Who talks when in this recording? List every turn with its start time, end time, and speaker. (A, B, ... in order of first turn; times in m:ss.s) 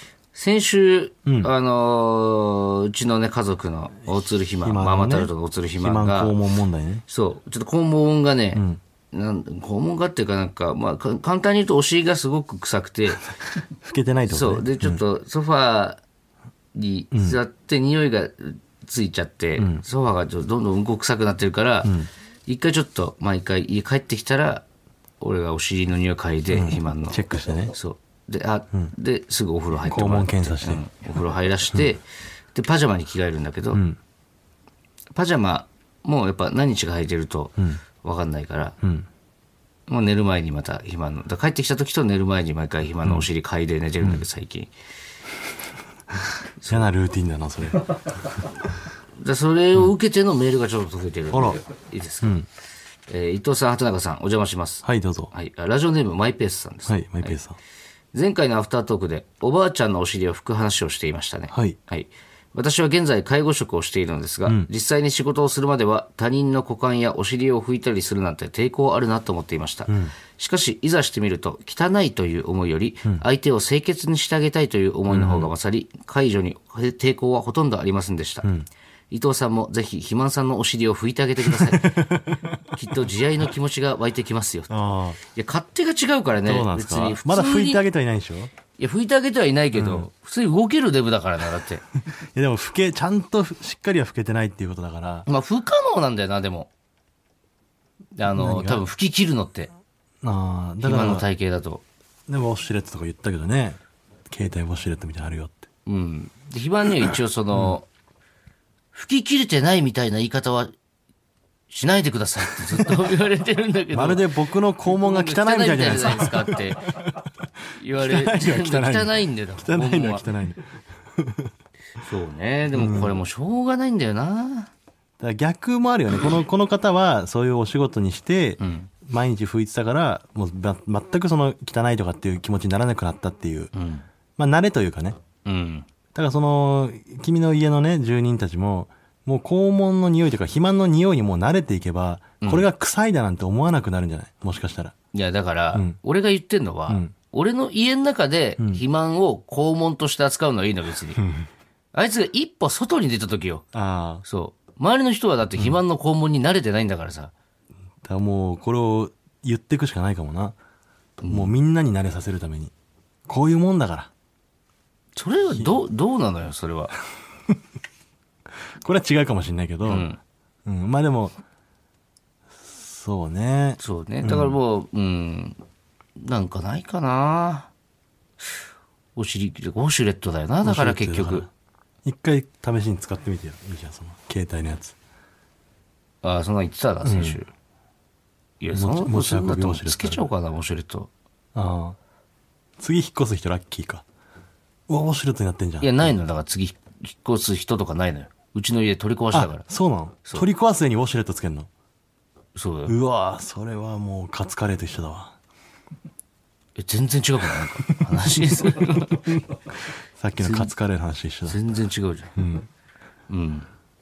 0:00.3-0:06.4 A
0:01.3-0:01.5 B
0:04.3-0:07.0 B
0:07.1-0:13.3 A
0:08.6-0:08.8 B
0:13.8-0:15.0 B
0:14.3-0:16.0 A
0:16.7-0:21.9 A
0:17.1-0:17.4 B
0:19.6-0:19.8 B
0:21.8-0:22.1 B
0:22.5-0:24.7 A
0:25.2-0:27.2 A
0:26.5-0:27.7 B
0:27.7-0:33.8 A
0:29.9-0:30.8 B
0:33.7-0:34.0 B
0:35.1-0:38.8 A
0:38.8-0:39.1 B
0:39.9-0:44.7 A
0:46.6-0:46.9 A
0:46.7-0:48.0 B
0:49.2-0:52.4 A
0:51.3-0:51.6 B
0:53.1-0:57.4 A
0:54.8-0:55.3 B
0:56.9-0:57.6 B
0:58.1-1:18.5 A
1:01.5-1:01.8 B
1:09.9-1:10.1 B
1:15.1-1:15.5 B
1:18.4-1:18.7 B
1:19.1-1:22.1 A
1:21.4-1:22.6 B
1:22.7-1:27.8 A
1:24.7-1:25.2 B
1:26.4-1:28.5 B
1:28.8-1:31.8 A
1:29.7-1:30.1 B
1:32.2-1:35.3 B
1:35.3-1:36.7 A
1:38.2-1:39.7 A
1:38.3-1:38.8 B
1:40.2-1:41.3 B
1:40.8-1:41.8 A
1:42.3-1:45.7 B
1:45.9-1:47.9 A
1:48.9-1:50.7 A
1:51.7-1:54.3 A
1:52.7-1:53.1 B
1:53.9-1:57.3 B
1:54.8-1:56.9 A
1:57.8-2:00.3 A
1:57.9-2:01.5 B
2:02.0-2:04.7 A
2:02.7-2:03.2 B
2:05.2-2:13.7 B
2:08.6-2:08.9 A
2:13.7-2:14.0 A
2:14.4-2:15.2 B
2:15.4-2:15.9 A
2:16.1-2:24.9 B
2:25.1-2:31.2 A
2:26.9-2:27.1 B
2:28.6-2:28.8 B
2:31.2-2:31.5 B
2:31.9-2:33.6 A
2:33.7-2:34.2 B
2:34.2-2:37.3 A
2:38.0-2:40.6 B
2:41.2-2:41.5 A
2:41.3-2:42.7 B
2:43.3-2:44.1 B
2:45.2-2:47.0 A
2:48.8-2:50.1 B
2:49.9-2:50.2 A
2:50.7-2:51.4 B
2:52.6-2:54.6 B
2:53.8-2:55.6 A
2:56.2-2:57.7 A
2:59.2-3:01.5 A
3:00.6-3:01.5 B
3:02.0-3:05.0 B
3:06.2-3:07.5 A
3:07.0-3:07.4 B
3:08.6-3:11.1 A
3:08.7-3:10.3 B
3:11.6-3:12.0 B
3:12.8-3:14.0 B
3:14.9-3:16.1 B
3:15.8-3:19.6 A
3:19.3-3:21.7 B
3:22.6-3:23.0 A
3:22.9-3:25.3 B
3:26.8-3:29.3 A
3:27.6-3:29.3 B
3:30.2-3:31.6 B
3:30.4-3:30.7 A
3:31.5-3:32.4 A
3:32.4-3:32.7 B
3:33.3-3:33.7 A